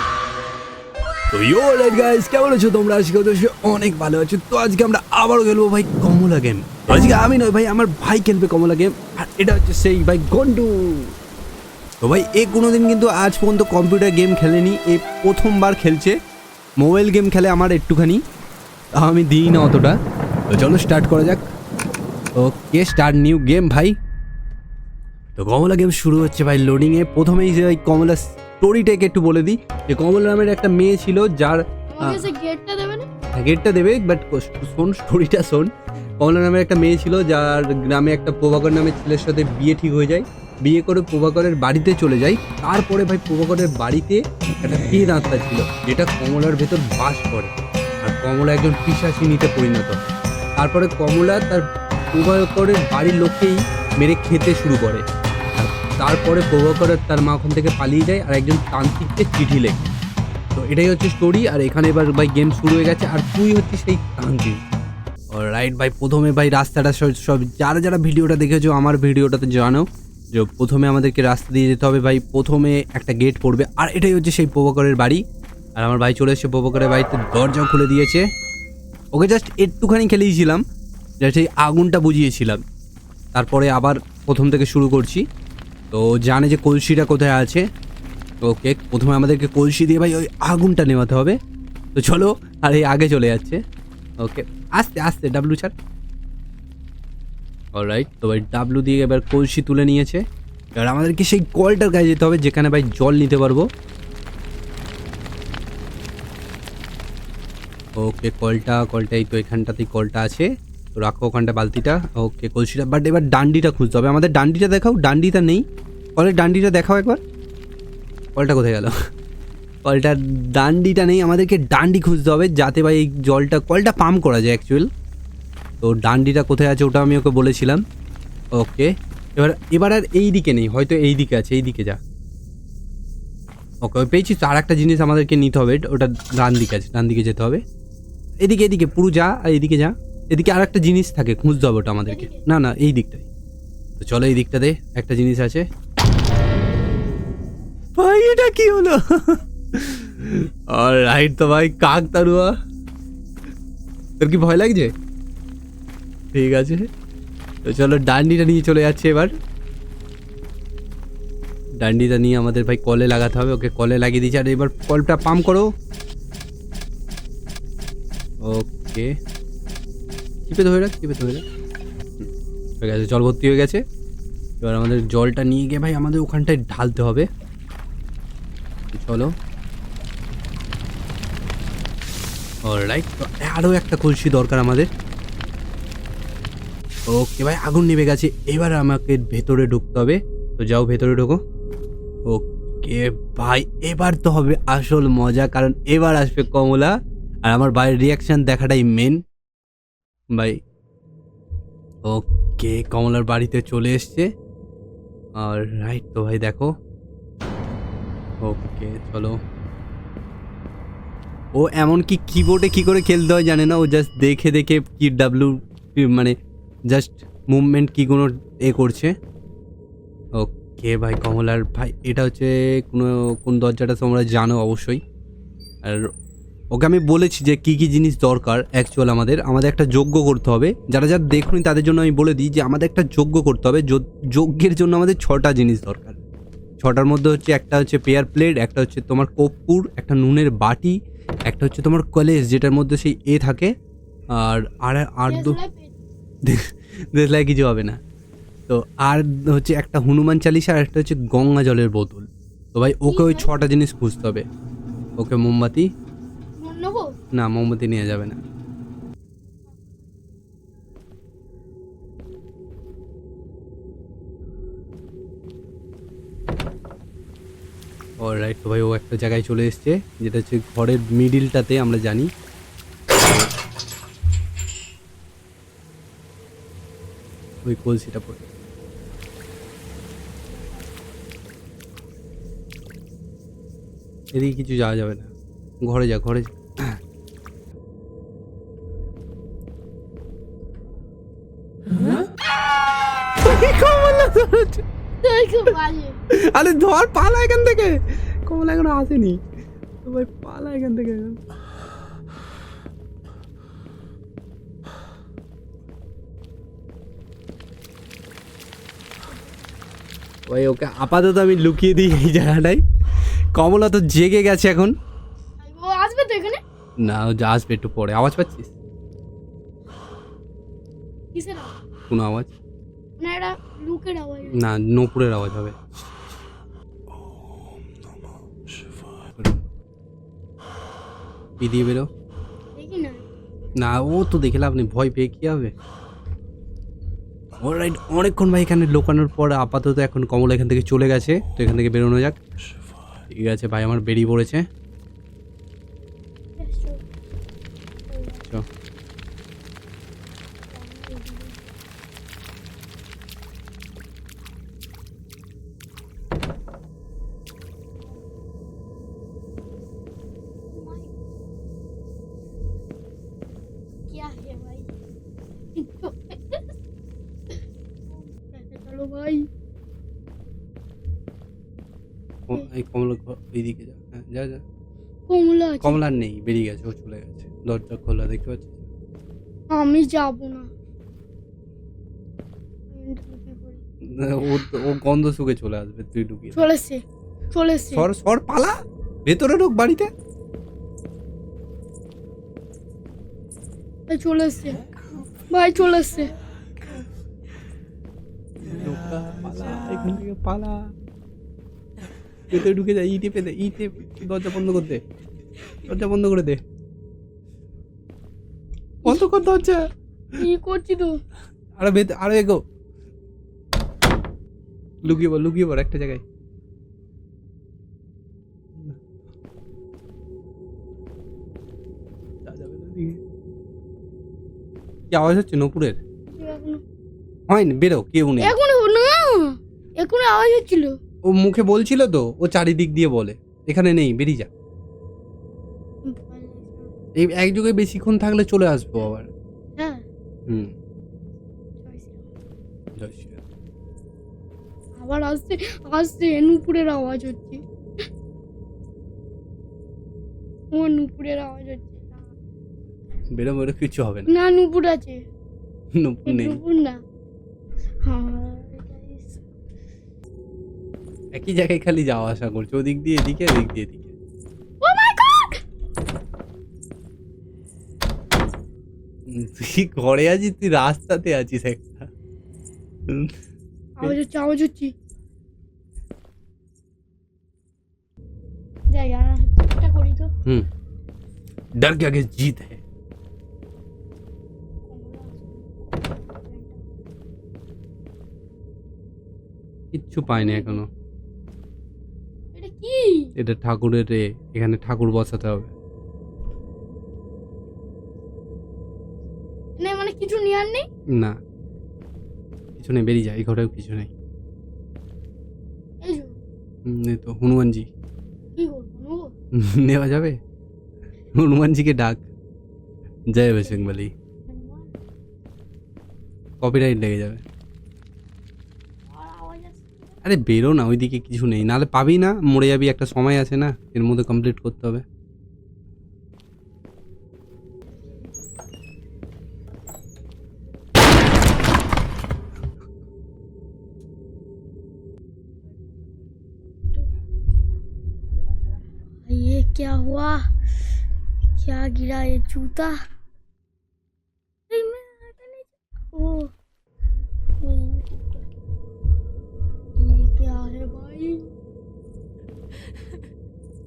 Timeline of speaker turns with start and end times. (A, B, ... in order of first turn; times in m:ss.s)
0:01.3-0:11.2 A
0:12.0-0:16.2 A
0:16.8-0:18.2 A
0:19.0-0:20.0 A
0:20.5-0:21.5 A
0:22.4-0:23.9 A
0:25.4-0:32.3 A
0:31.9-0:33.1 B
0:33.3-0:55.0 A
0:55.6-0:59.9 A
1:00.5-1:04.6 A
1:05.3-1:15.2 A
1:15.8-1:18.3 A
1:19.1-1:20.6 A
1:21.2-1:22.6 A
1:23.3-1:25.2 A
1:25.9-1:27.6 A
1:28.4-1:31.4 A
1:31.9-1:33.6 A
1:34.2-1:35.7 A
1:37.7-1:40.2 A
1:40.8-1:43.6 A
1:48.0-1:55.6 A
1:56.2-1:57.2 A
1:58.4-1:58.9 A
1:59.8-2:04.9 A
2:05.8-2:07.8 A
2:08.6-2:12.0 A
2:13.8-2:17.6 A
2:18.4-2:23.3 A
2:22.1-2:22.5 B
2:24.0-2:25.6 A
2:28.0-2:32.5 A
2:34.2-2:34.9 A
2:36.3-2:36.8 A
2:37.6-2:39.3 A
2:41.8-2:45.7 A
2:48.4-2:49.1 A
2:50.5-2:51.4 A
2:52.8-2:53.8 A
2:54.6-2:57.3 A
2:58.9-2:59.3 A
3:02.7-3:04.9 A
3:07.1-3:11.4 A
3:12.3-3:16.9 A
3:17.4-3:19.2 A
3:22.0-3:24.3 A
3:25.4-3:26.7 A
3:28.4-3:29.4 A
3:31.5-3:36.3 A
3:36.9-3:39.1 A
3:40.4-3:45.0 A
3:46.7-3:56.2 A
3:56.8-4:00.9 A
4:01.5-4:03.7 A
4:04.3-4:05.6 A
4:05.3-4:06.0 B
4:06.4-4:08.0 A
4:08.7-4:14.4 A
4:13.1-4:13.5 B
4:15.2-4:15.9 A
4:16.6-4:17.1 B
4:17.3-4:18.4 A
4:28.2-4:32.3 A
4:37.6-4:38.4 A
4:44.3-4:47.0 A
4:53.4-4:54.8 A
4:55.2-4:56.2 B
4:56.3-4:59.4 A
5:00.0-5:01.4 A
5:10.5-5:12.8 A
5:13.5-5:14.9 A
5:15.6-5:16.6 B
5:17.0-5:18.7 A
5:21.3-5:21.7 B
5:22.1-5:22.5 A
5:23.2-5:24.6 B
5:24.5-5:25.8 A
5:31.6-5:32.1 A
5:32.7-5:33.2 B
5:33.8-5:35.7 A
5:37.6-5:42.4 A
5:43.3-5:44.6 A
5:46.6-5:47.0 B
5:48.1-5:48.6 B
5:50.6-5:51.7 B
6:00.7-6:01.2 B
6:04.0-6:05.0 B
6:05.8-6:06.6 B
6:08.1-6:09.5 B
6:12.5-6:14.6 A
6:15.3-6:16.0 B
6:15.8-6:18.7 A
6:19.7-6:20.7 B
6:22.9-6:23.8 B
6:24.2-6:26.7 A
6:26.5-6:28.1 B
6:27.9-6:28.7 A
6:29.2-6:30.1 A
6:34.1-6:34.8 B
6:35.5-6:36.3 B
6:38.6-6:40.9 A
6:42.5-6:45.0 A
6:45.8-6:46.6 A
6:49.0-6:49.8 A
6:50.4-6:51.2 B
6:51.8-6:52.6 A
6:55.0-6:56.2 A
7:02.4-7:03.2 A
7:05.1-7:06.0 A
7:06.3-7:06.8 B
7:07.5-7:08.5 A
7:08.4-7:11.0 B
7:11.3-7:14.5 A
7:16.0-7:16.9 B
7:17.2-7:19.3 A
7:19.8-7:20.0 B
7:20.5-7:20.7 A
7:21.8-7:22.3 B
7:23.0-7:23.4 A
7:25.0-7:27.6 B
7:30.7-7:32.2 B
7:33.3-7:34.3 A
7:34.3-7:35.2 B
7:36.0-7:36.6 A
7:36.3-7:37.0 B
7:38.0-7:39.4 B
7:41.3-7:44.1 A
7:44.8-7:45.6 B
7:49.3-7:52.1 A
7:54.0-7:54.9 B
7:58.9-8:00.3 B
8:01.8-8:02.8 A
8:04.8-8:07.1 B
8:09.9-8:10.9 A
8:10.3-8:10.8 B
8:12.5-8:13.3 B
8:13.4-8:15.7 A
8:19.8-8:20.9 B
8:22.8-8:24.1 A
8:26.0-8:26.3 B
8:26.8-8:27.9 A
8:28.6-8:29.3 B
8:29.5-8:30.4 A
8:31.3-8:32.3 A
8:33.3-8:34.1 A
8:34.5-8:34.9 B
8:36.6-8:37.4 A
8:39.1-8:40.1 B
8:40.2-8:45.0 A
8:59.2-9:00.5 B
9:01.6-9:03.0 B
9:04.7-9:06.5 B
9:07.6-9:08.4 B
9:09.9-9:11.5 B